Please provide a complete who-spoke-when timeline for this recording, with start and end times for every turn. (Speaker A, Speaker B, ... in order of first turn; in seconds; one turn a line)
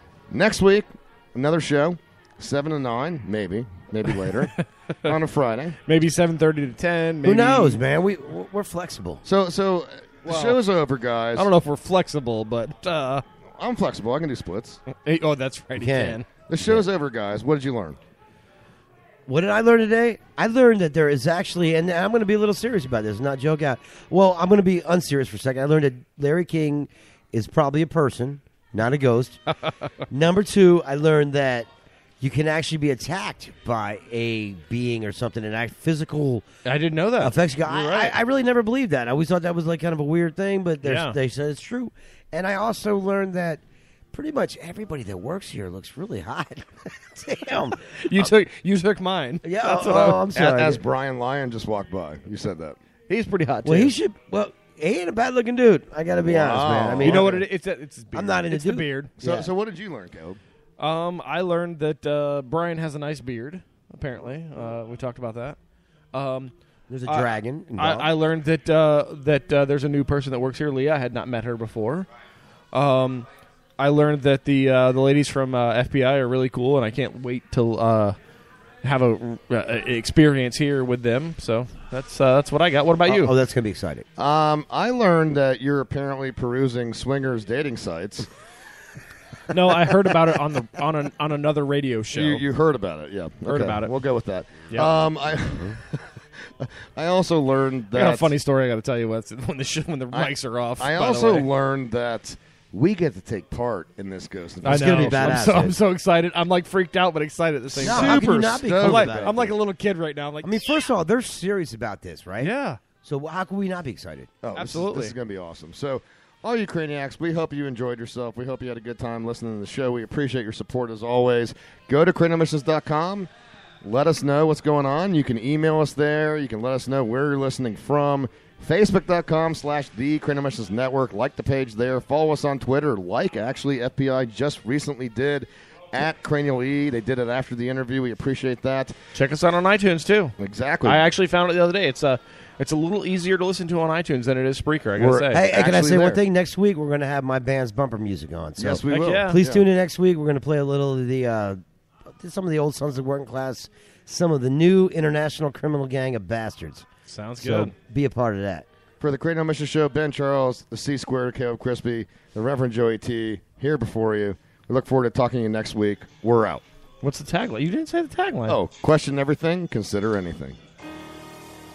Speaker A: 0.3-5.8
Speaker B: 4.3-4.6
Speaker B: 5.8-7.8
Speaker C: 7.2-9.2
Speaker A: 9.2-11.5
Speaker B: 10.3-10.6
Speaker B: 11.3-13.2
Speaker A: 13.6-14.8
Speaker B: 14.9-16.3
Speaker C: 15.8-16.8
Speaker A: 16.5-18.0
Speaker C: 19.3-29.4
Speaker C: 30.1-31.7
Speaker C: 32.2-36.4
Speaker B: 36.6-38.2
Speaker C: 37.2-43.6
Speaker B: 40.8-41.2
Speaker C: 44.1-47.8
Speaker B: 48.0-50.2
Speaker C: 49.4-50.8
Speaker A: 49.9-52.8
Speaker B: 53.1-53.9
Speaker C: 53.6-57.5
Speaker A: 56.2-57.3
Speaker B: 57.0-59.1
Speaker C: 58.1-59.5
Speaker A: 59.2-60.4
Speaker B: 60.8-65.6
Speaker B: 66.1-66.5
Speaker C: 66.9-68.1
Speaker B: 67.1-72.1
Speaker B: 72.7-78.2
Speaker B: 78.8-83.3
Speaker C: 83.1-84.0
Speaker A: 84.2-88.3
Speaker B: 89.5-92.4
Speaker A: 92.1-98.3
Speaker B: 93.5-93.9
Speaker B: 94.7-95.0
Speaker B: 97.9-101.5
Speaker A: 100.1-105.5
Speaker B: 104.6-110.6
Speaker C: 104.7-105.8
Speaker A: 107.7-109.5
Speaker C: 107.8-109.5
Speaker C: 110.4-112.5
Speaker B: 112.4-112.8
Speaker C: 113.0-114.3
Speaker A: 114.4-123.3
Speaker B: 114.5-115.2
Speaker A: 123.8-139.0
Speaker B: 139.1-140.3
Speaker A: 140.4-141.1
Speaker B: 140.8-145.4
Speaker A: 145.0-146.2
Speaker C: 145.3-151.6
Speaker A: 148.6-149.6
Speaker B: 148.9-149.4
Speaker C: 152.1-156.9
Speaker B: 157.1-157.7
Speaker C: 157.4-158.7
Speaker A: 159.0-166.6
Speaker B: 167.0-168.6
Speaker A: 168.5-170.6